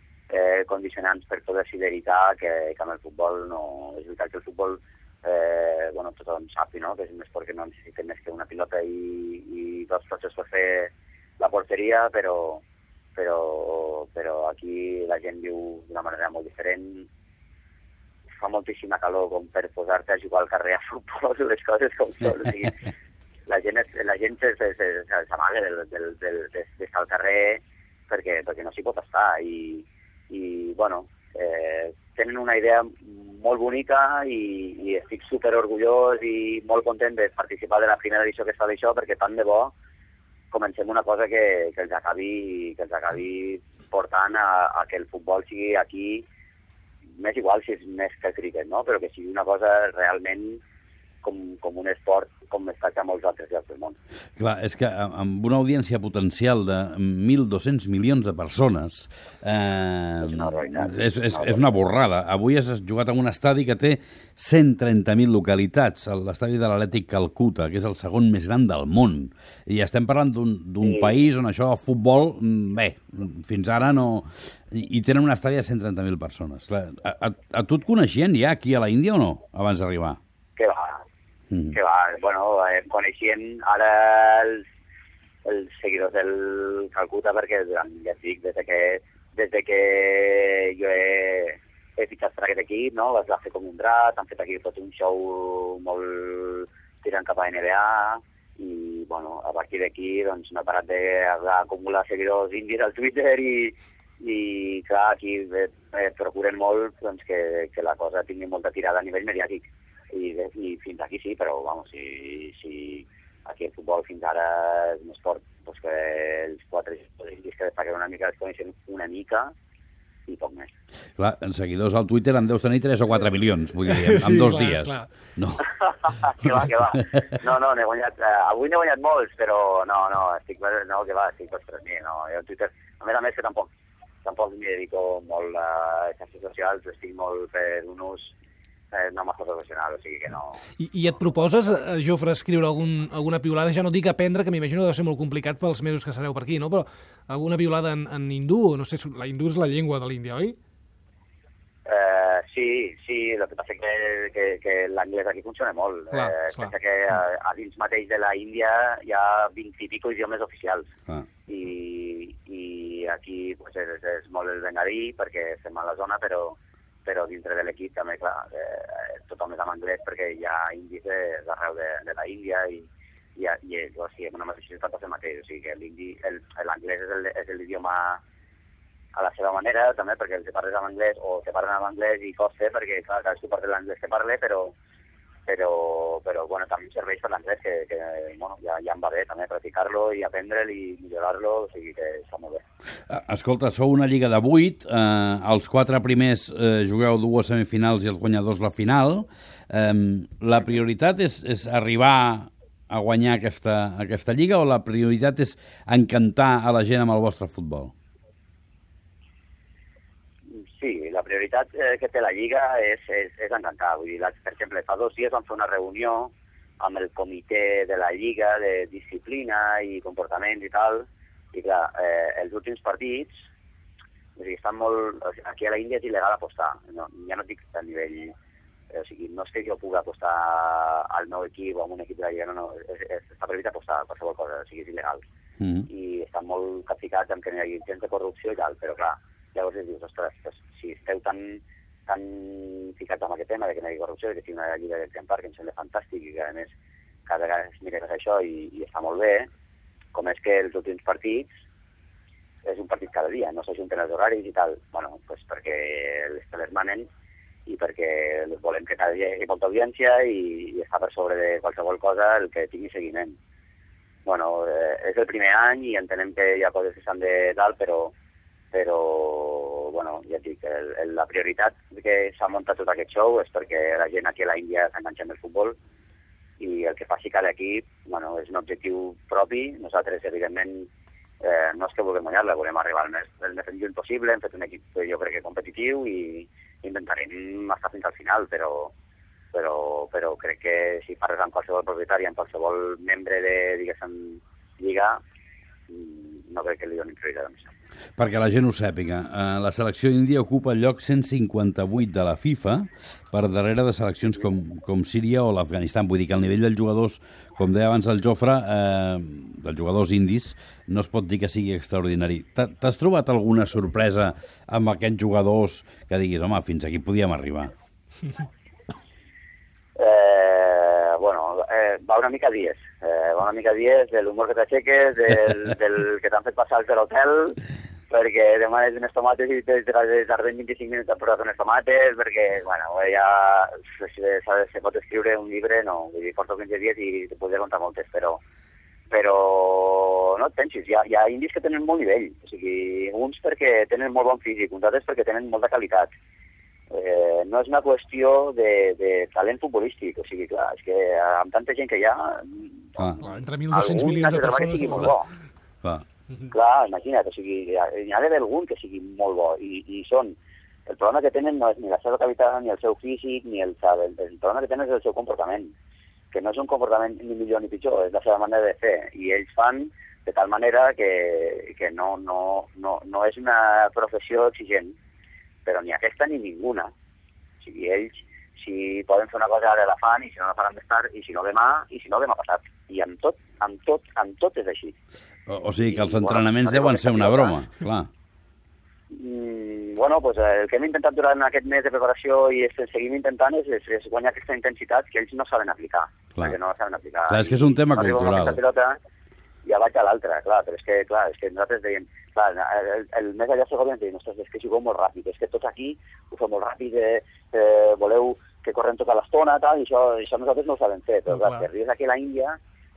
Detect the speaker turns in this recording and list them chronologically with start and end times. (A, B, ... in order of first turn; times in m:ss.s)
0:00.3-0:12.6 A
0:13.2-0:17.1 A
0:18.4-0:22.9 A
0:23.5-0:39.7 A
0:40.5-0:46.3 A
0:47.2-0:50.6 A
0:51.2-0:54.0 A
0:54.4-1:20.2 B
1:00.2-1:01.8 A
1:10.8-1:11.2 A
1:20.6-1:21.0 A
1:21.7-1:24.6 A
1:25.4-1:59.5 A
2:00.3-2:00.7 A
2:01.2-2:05.7 B
2:03.9-2:05.1 C
2:05.6-2:13.7 A
2:06.4-2:07.2 B
2:14.2-2:18.3 A
2:18.9-2:20.6 A
2:20.8-2:30.6 C
2:31.9-2:40.9 A
2:36.1-2:36.7 C
2:41.5-2:58.2 A
2:59.1-3:04.7 A
3:05.5-3:12.6 A
3:13.1-3:27.9 B
3:30.5-3:43.4 A
3:44.4-3:48.3 A
3:48.9-3:55.2 A
3:55.6-3:55.9 B
3:55.9-4:06.7 A
4:07.3-4:09.5 A
4:10.1-4:11.5 A
4:12.6-4:17.1 A
4:17.7-4:23.4 A
4:24.3-4:28.1 A
4:28.7-4:35.8 A
4:36.6-4:40.9 A
4:41.4-4:48.9 A
4:49.5-4:55.2 A
4:55.9-4:57.7 A
4:58.2-5:17.7 B
5:20.0-5:27.6 A
5:28.1-5:38.4 A
5:39.1-5:46.1 A
5:46.9-5:53.1 A
5:53.0-5:53.2 B
5:53.2-5:55.1 C
5:53.7-5:55.3 A
5:56.5-6:00.4 A
6:00.9-6:05.7 A
6:06.3-6:15.0 A
6:15.6-6:16.9 A
6:17.6-6:25.0 A
6:25.5-6:28.1 B
6:25.9-6:27.6 A
6:29.1-6:39.0 A
6:37.3-6:38.6 B
6:39.6-6:52.6 A
6:51.3-6:51.7 C